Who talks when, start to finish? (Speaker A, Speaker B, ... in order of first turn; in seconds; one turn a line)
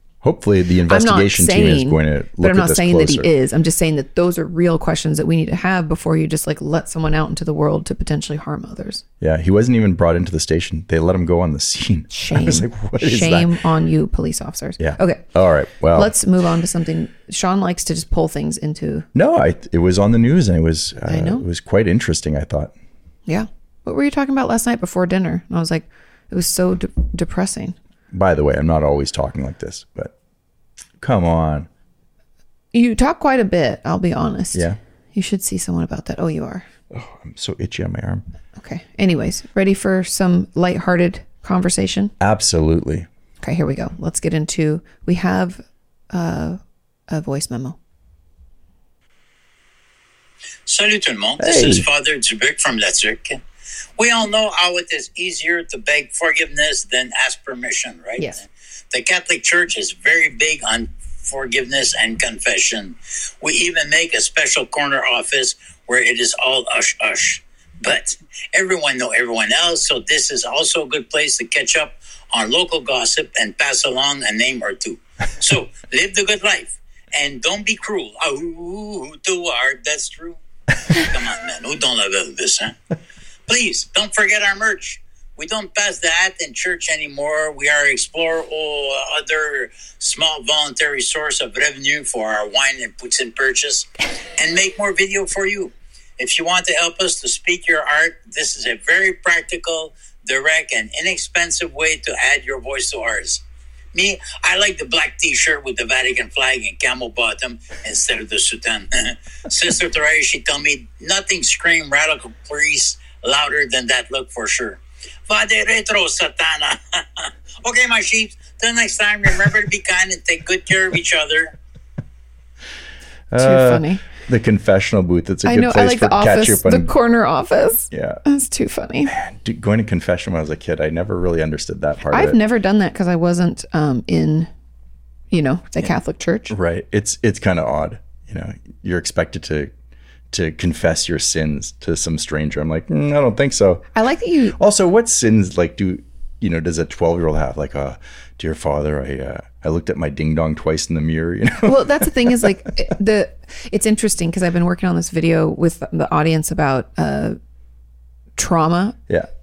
Speaker A: 0.2-3.3
Speaker B: 0.9-9.0
Speaker A: 9.2-13.6
Speaker B: 12.1-15.3
Speaker A: 14.8-16.1
Speaker B: 15.9-19.1
Speaker A: 19.1-22.7
Speaker B: 21.1-21.4
Speaker B: 23.3-27.8
Speaker A: 28.1-30.1
Speaker A: 31.0-31.7
Speaker B: 32.7-36.7
Speaker A: 36.9-38.2
Speaker B: 38.6-42.1
Speaker A: 42.2-43.1
Speaker B: 43.4-47.8
Speaker C: 50.6-53.4
Speaker A: 51.4-51.9
Speaker C: 54.0-82.8
Speaker C: 83.5-103.4
Speaker C: 103.9-121.5
Speaker A: 123.3-126.9
Speaker B: 123.4-124.0
Speaker B: 125.4-129.1
Speaker A: 127.9-128.2
Speaker A: 129.1-132.4
Speaker B: 132.1-134.5
Speaker B: 135.3-136.5
Speaker A: 136.5-139.7
Speaker A: 140.3-143.9
Speaker B: 143.9-144.6
Speaker A: 144.5-152.5
Speaker B: 151.6-157.4
Speaker B: 158.4-159.0